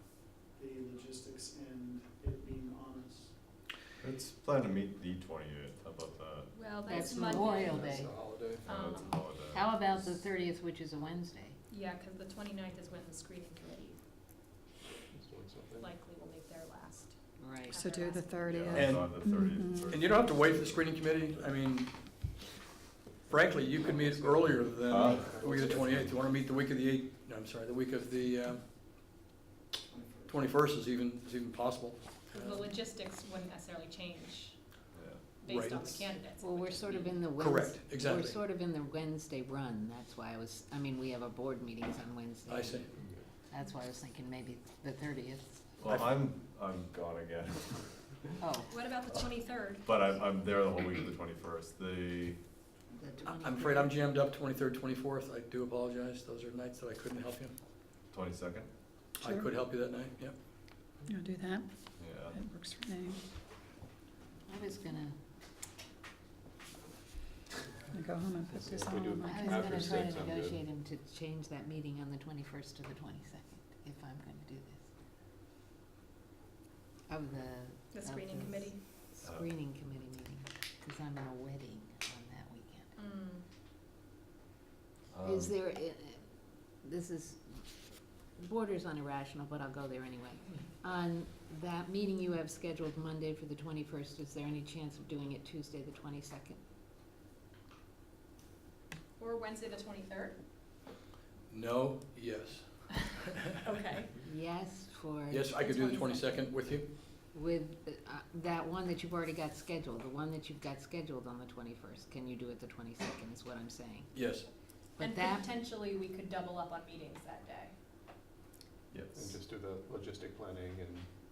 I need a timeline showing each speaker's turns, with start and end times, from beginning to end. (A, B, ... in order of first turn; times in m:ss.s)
0:00.6-0:03.4 A
0:04.0-0:06.7 B
0:06.5-0:08.0 C
0:06.9-0:08.1 D
0:07.0-0:08.6 E
0:08.6-0:10.2 B
0:08.6-0:09.2 C
0:09.5-0:11.6 D
0:11.7-0:14.0 C
0:15.1-0:15.9 F
0:15.8-0:18.4 C
0:17.4-0:17.7 D
0:17.8-0:20.0 G
0:18.4-0:21.6 B
0:18.8-0:19.2 E
0:19.9-0:21.9 E
0:23.3-0:28.8 E
0:23.3-0:26.1 F
0:24.7-0:26.1 B
0:29.9-0:30.5 A
0:30.3-0:32.7 E
0:32.3-0:34.6 C
0:34.9-0:35.2 B
0:35.4-0:37.2 C
0:35.4-0:36.2 E
0:36.4-0:42.9 D
0:37.4-0:38.4 E
0:42.5-0:42.9 E
0:43.0-0:43.2 F
0:43.5-0:45.7 D
0:45.8-0:48.1 B
0:45.9-0:46.1 E
0:48.4-0:48.7 D
0:48.7-0:49.9 C
0:49.9-0:52.4 B
0:53.0-0:53.9 D
0:53.3-0:57.5 E
0:58.1-0:58.7 B
0:59.2-0:59.5 G
0:59.2-1:00.4 E
1:01.1-1:01.7 G
1:02.0-1:02.4 B
1:02.3-1:03.2 G
1:04.5-1:05.2 D
1:07.9-1:10.1 G
1:08.5-1:10.6 F
1:09.2-1:14.8 D
1:17.1-1:22.9 D
1:17.9-1:18.8 C
1:23.0-1:23.4 C
1:25.1-1:25.5 B
1:25.2-1:26.2 D
1:26.8-1:27.6 D
1:28.4-1:36.6 D
1:39.2-1:40.4 C
1:41.5-1:43.6 E
1:43.6-1:44.1 C
1:44.2-1:46.5 D
1:45.3-1:46.9 E
1:47.3-1:54.1 D
1:54.1-1:54.5 E
1:55.0-1:55.5 D
1:55.0-1:57.7 C
1:58.9-1:59.2 B
1:59.1-2:01.1 F